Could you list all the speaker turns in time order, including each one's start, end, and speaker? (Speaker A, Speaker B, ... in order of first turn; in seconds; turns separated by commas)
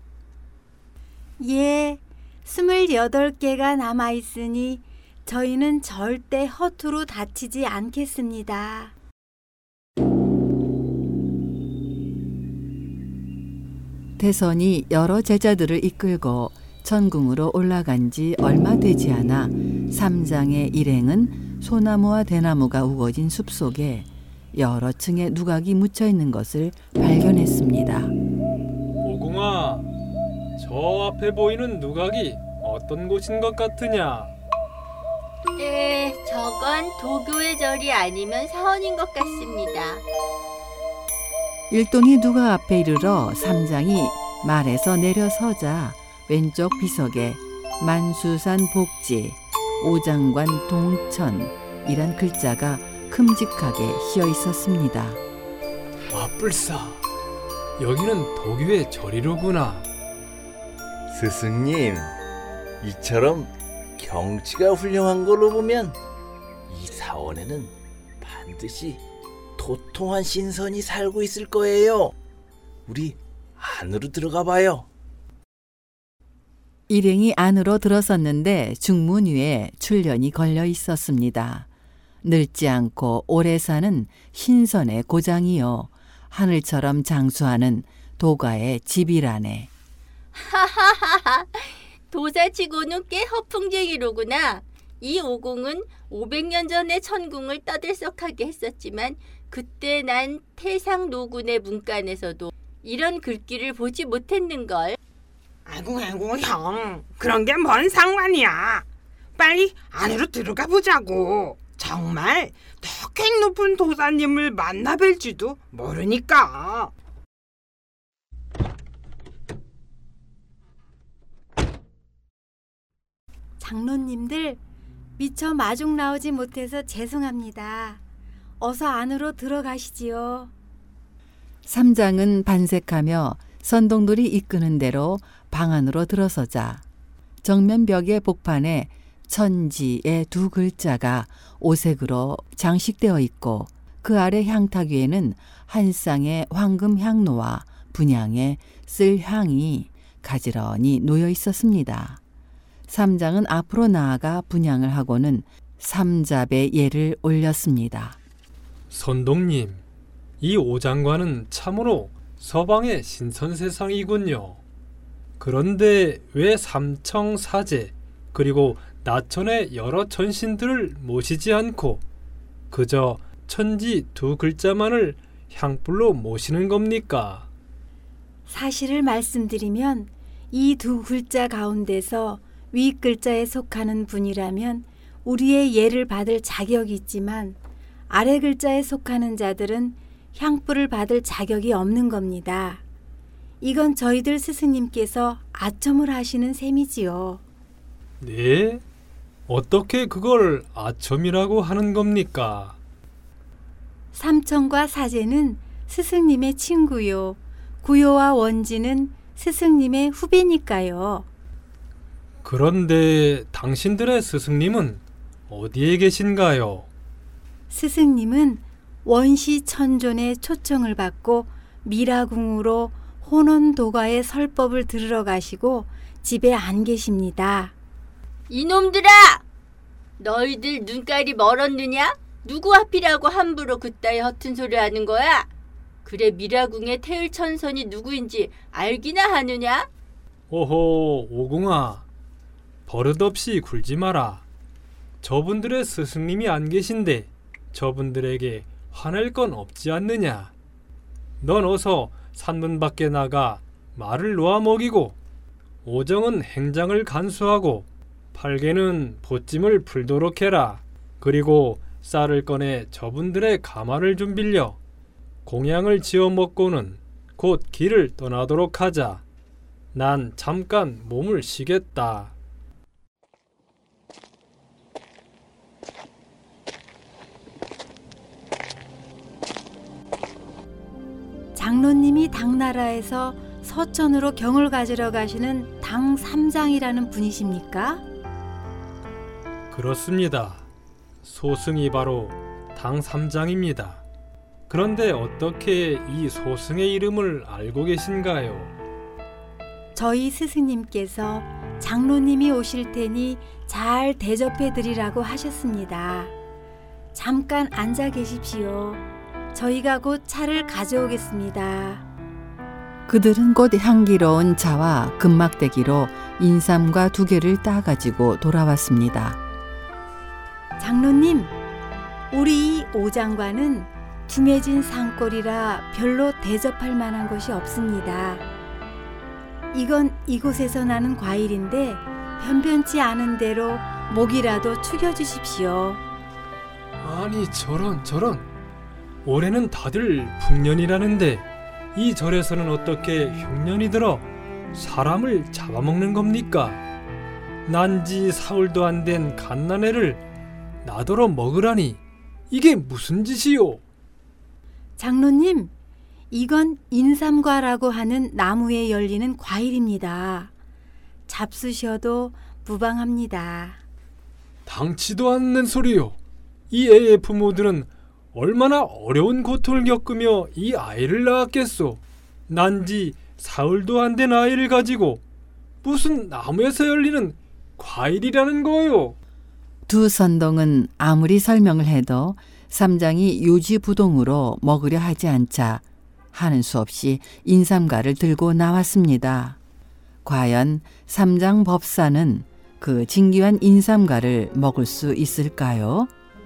Speaker A: 1.4-8.9, Speaker B: 14.2-28.1, Speaker C: 29.0-29.9, Speaker C: 30.6-34.3, Speaker D: 35.5-40.0, Speaker B: 41.7-55.2, Speaker C: 56.1-57.0, Speaker C: 57.8-59.9, Speaker E: 61.1-62.2, Speaker E: 62.8-66.0, Speaker E: 66.7-69.0, Speaker E: 69.6-72.1, Speaker E: 72.9-74.9, Speaker B: 76.9-81.7, Speaker B: 82.2-89.7, Speaker D: 90.3-105.0, Speaker F: 105.7-108.8, Speaker F: 109.4-116.9, Speaker A: 123.6-124.6, Speaker A: 125.2-128.0, Speaker A: 128.6-130.5, Speaker B: 131.7-136.8, Speaker B: 137.4-152.2, Speaker B: 152.9-158.2, Speaker C: 158.9-159.8, Speaker C: 160.4-164.6, Speaker C: 165.4-172.0, Speaker C: 172.7-177.5, Speaker A: 178.5-187.6, Speaker A: 188.1-192.8, Speaker A: 193.6-197.4, Speaker C: 198.2-198.8, Speaker C: 199.5-202.8, Speaker A: 204.1-211.3, Speaker C: 212.4-216.9, Speaker A: 217.7-227.7, Speaker D: 228.5-229.4, Speaker D: 230.2-235.5, Speaker D: 236.0-239.9, Speaker C: 240.5-242.0, Speaker C: 242.9-244.4, Speaker C: 245.2-250.5, Speaker C: 251.4-255.2, Speaker C: 255.8-264.8, Speaker C: 265.4-269.2, Speaker C: 269.9-272.3, Speaker A: 281.5-288.0, Speaker C: 289.7-290.6, Speaker C: 291.2-294.0, Speaker C: 294.7-298.7, Speaker A: 299.9-306.3, Speaker A: 307.1-312.1, Speaker B: 313.1-319.4, Speaker A: 320.8-321.5, Speaker A: 322.3-328.5, Speaker A: 329.7-336.0, Speaker C: 337.0-338.5, Speaker C: 339.2-346.8, Speaker C: 347.6-350.2, Speaker C: 350.8-353.8, Speaker A: 355.0-355.7, Speaker A: 356.3-360.5, Speaker A: 361.3-363.8, Speaker C: 364.6-366.2, Speaker C: 366.7-375.2, Speaker C: 375.8-379.1, Speaker B: 379.9-389.6, Speaker B: 390.2-396.1